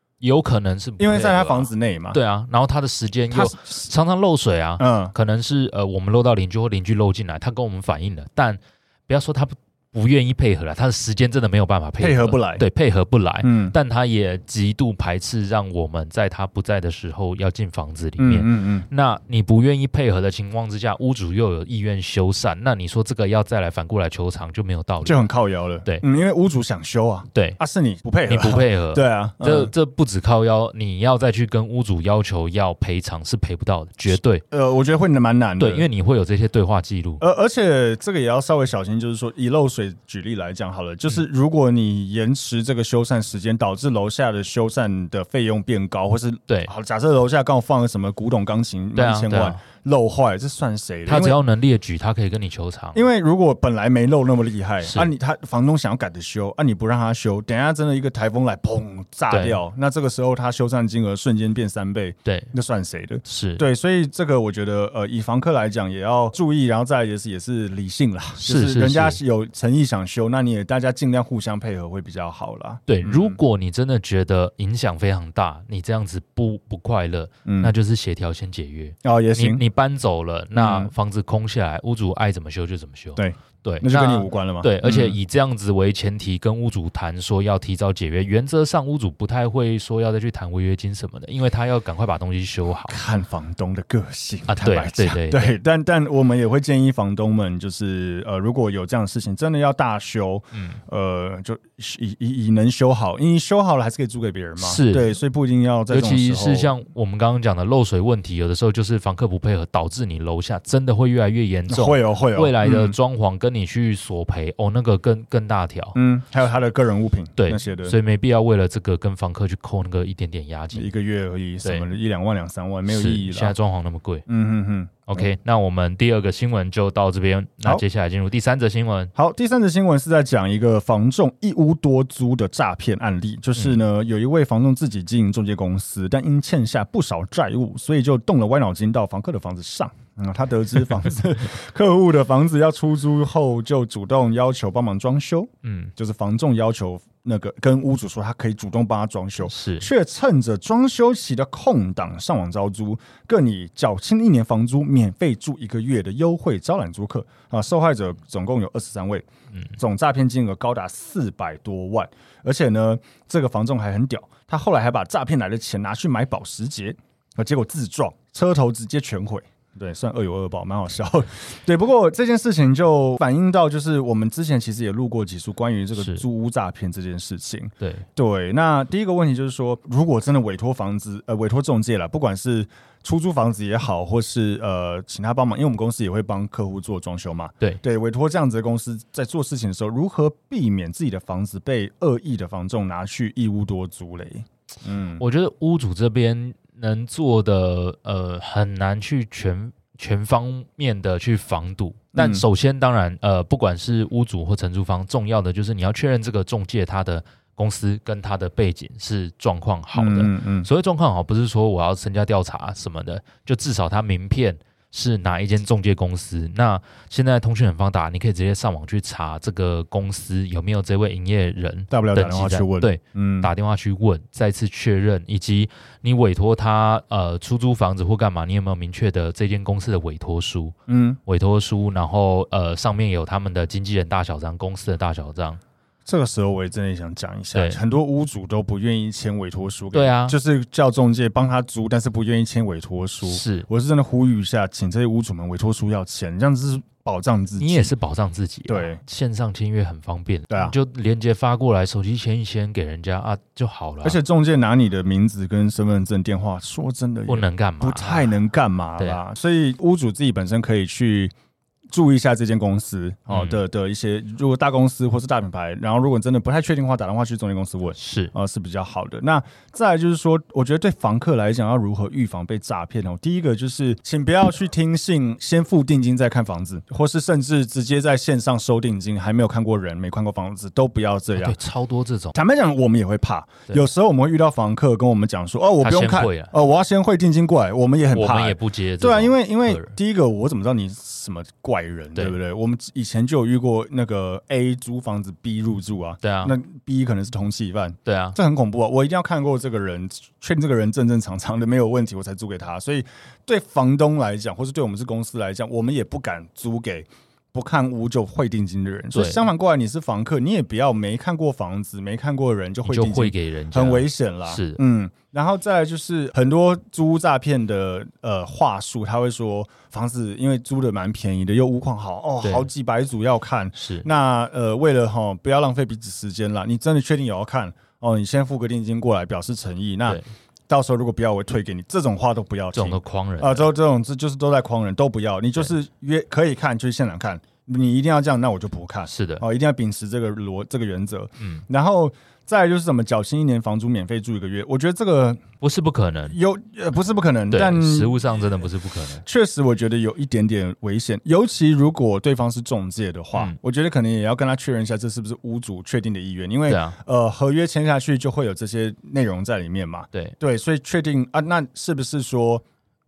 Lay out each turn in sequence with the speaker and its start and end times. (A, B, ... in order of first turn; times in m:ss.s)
0:00.2-0:25.3 A
0:01.0-0:02.2 B
0:03.3-0:03.9 B
0:04.8-0:05.1 B
0:12.0-0:12.6 B
0:13.4-0:13.8 B
0:18.2-0:18.9 B
0:25.0-0:29.7 B
0:27.3-0:27.6 A
0:28.3-0:34.4 A
0:34.1-0:35.9 B
0:35.6-0:37.2 A
0:37.2-0:51.4 B
0:49.0-0:49.6 A
0:51.1-0:53.0 A
0:52.9-1:13.4 B
0:54.8-0:55.1 A
0:59.3-0:59.6 A
1:02.3-1:02.5 A
1:03.2-1:03.6 A
1:08.4-1:09.2 A
1:12.9-1:33.0 A
1:17.5-1:17.7 B
1:19.0-1:19.6 B
1:20.6-1:20.9 B
1:23.2-1:25.2 B
1:32.9-1:46.7 B
1:34.5-1:35.6 A
1:40.5-1:40.8 A
1:44.6-1:45.2 A
1:45.9-1:56.0 A
1:51.7-1:53.0 B
1:56.0-1:58.0 B
1:57.4-2:00.9 A
2:00.7-2:03.6 B
2:02.9-2:04.3 A
2:04.3-2:05.3 B
2:05.1-2:09.1 A
2:09.2-2:39.3 B
2:25.6-2:25.9 A
2:29.4-2:29.9 A
2:39.8-3:15.2 B
2:56.0-2:56.2 A
2:57.8-2:58.1 A
3:15.2-3:50.8 A
3:22.2-3:22.4 B
3:29.9-3:30.7 B
3:41.9-3:43.5 B
3:50.9-3:51.2 B
3:51.3-3:55.6 A
3:56.1-4:07.9 B
3:57.5-3:57.8 A
3:59.9-4:00.4 A
4:03.2-4:03.7 A
4:07.6-4:14.2 A
4:08.7-4:09.0 B
4:10.5-4:10.8 B
4:14.0-4:21.3 B
4:17.3-4:18.3 A
4:21.9-4:41.6 B
4:23.3-4:23.6 A
4:28.0-4:28.3 A
4:41.4-4:42.4 A
4:42.3-5:45.4 B
4:45.8-4:46.5 A
4:48.1-4:49.9 A
4:56.2-4:56.6 A
4:58.0-4:58.4 A
5:09.1-5:09.4 A
5:12.8-5:14.8 A
5:22.4-5:22.7 A
5:23.8-5:24.1 A
5:32.7-5:33.7 A
5:39.1-5:39.4 A
5:45.6-5:46.4 A
5:46.3-5:48.5 B
5:47.5-5:49.2 A
5:49.2-6:02.6 B
5:56.7-5:57.0 A